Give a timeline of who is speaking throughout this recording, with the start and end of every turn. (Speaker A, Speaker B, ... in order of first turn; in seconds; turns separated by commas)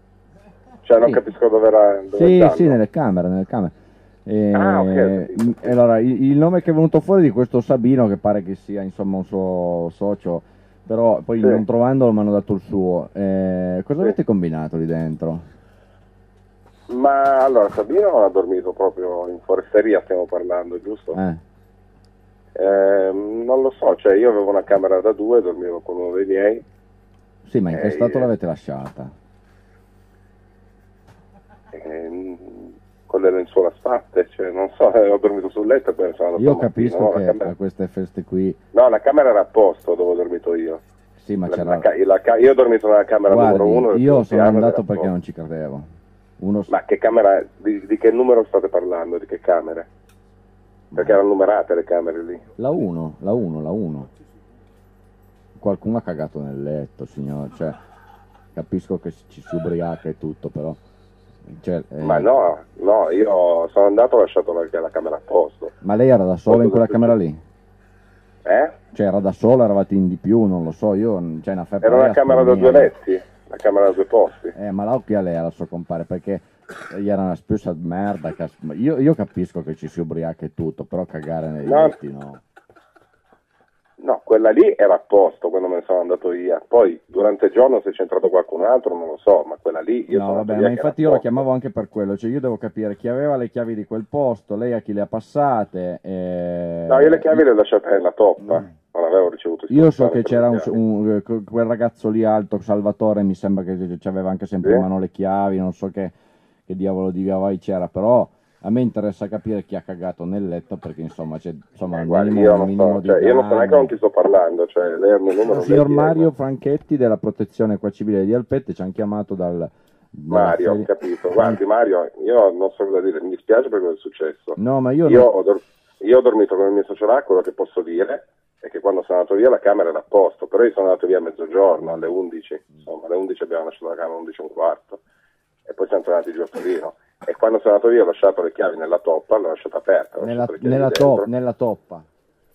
Speaker A: 0.8-2.8, Speaker B: 2.1-3.7, Speaker B: 4.3-15.4, Speaker A: 4.5-5.8, Speaker A: 16.9-21.2, Speaker B: 21.1-21.4, Speaker A: 22.6-26.6, Speaker B: 27.4-29.1, Speaker A: 27.7-28.3, Speaker A: 31.7-37.5, Speaker B: 36.4-38.6, Speaker A: 38.7-40.8, Speaker B: 41.2-41.9, Speaker A: 41.5-45.1, Speaker B: 43.3-45.9, Speaker B: 46.4-46.7, Speaker A: 46.7-49.9, Speaker B: 50.9-51.2, Speaker A: 51.0-52.4, Speaker B: 52.6-54.1, Speaker B: 55.6-57.8, Speaker B: 58.5-60.8, Speaker B: 61.5-62.3, Speaker A: 62.0-65.8, Speaker B: 65.8-67.4, Speaker A: 66.5-67.2, Speaker A: 68.5-68.8, Speaker B: 68.9-72.9, Speaker A: 71.8-74.5, Speaker B: 74.5-82.4, Speaker A: 81.6-81.9, Speaker A: 84.0-91.3, Speaker B: 90.1-97.4, Speaker A: 96.9-100.7, Speaker B: 99.7-106.1, Speaker B: 106.7-113.9, Speaker A: 111.9-116.3, Speaker B: 115.5-121.6, Speaker A: 120.3-135.0, Speaker B: 124.6-125.3, Speaker A: 135.7-141.3, Speaker B: 140.2-142.1